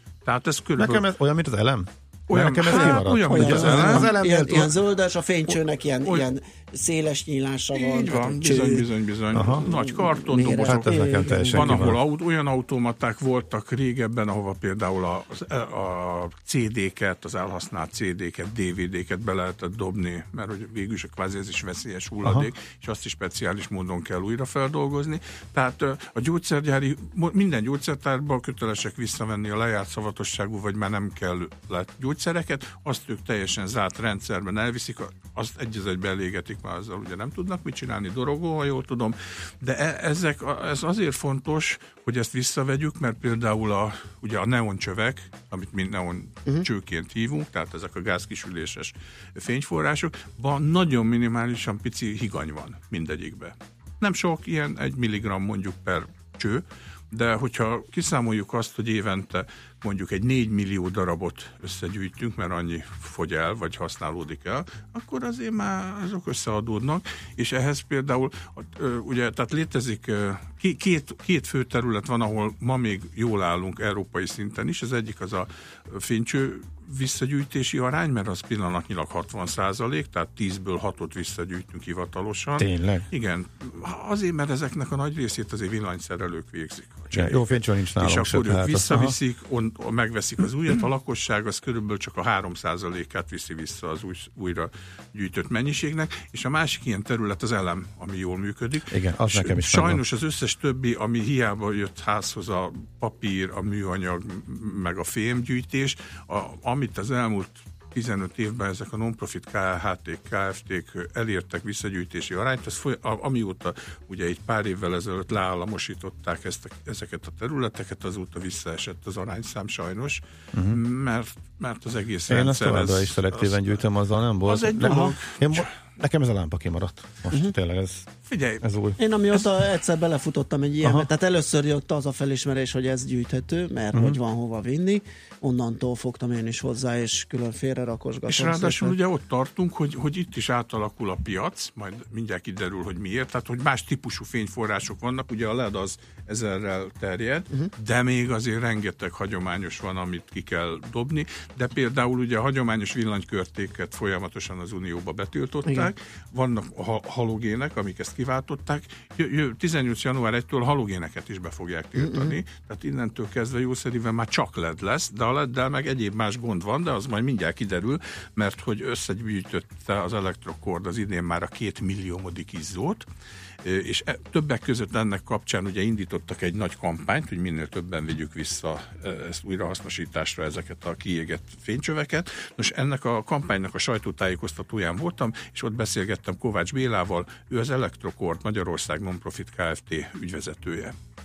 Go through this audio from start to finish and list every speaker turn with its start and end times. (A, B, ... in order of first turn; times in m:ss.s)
0:00.2-0:01.1 A
0:00.8-0:04.8 B
0:02.3-0:04.1 A
0:02.7-0:08.9 C
0:07.7-2:03.8 A
0:09.3-0:09.7 B
0:09.4-0:11.9 C
0:10.5-0:12.0 B
0:22.2-0:22.5 B
1:22.6-1:23.1 B
1:27.1-1:29.2 B
1:38.9-1:40.0 B
2:00.5-2:00.8 B
2:02.3-2:09.0 B
2:04.4-2:05.7 A
2:04.8-2:05.1 C
2:08.2-2:08.6 A
2:09.0-2:19.0 C
2:10.8-2:11.1 B
2:13.9-2:14.2 B
2:18.3-2:53.0 A
2:35.6-2:35.9 C
2:42.0-2:42.4 C
2:53.6-3:10.9 A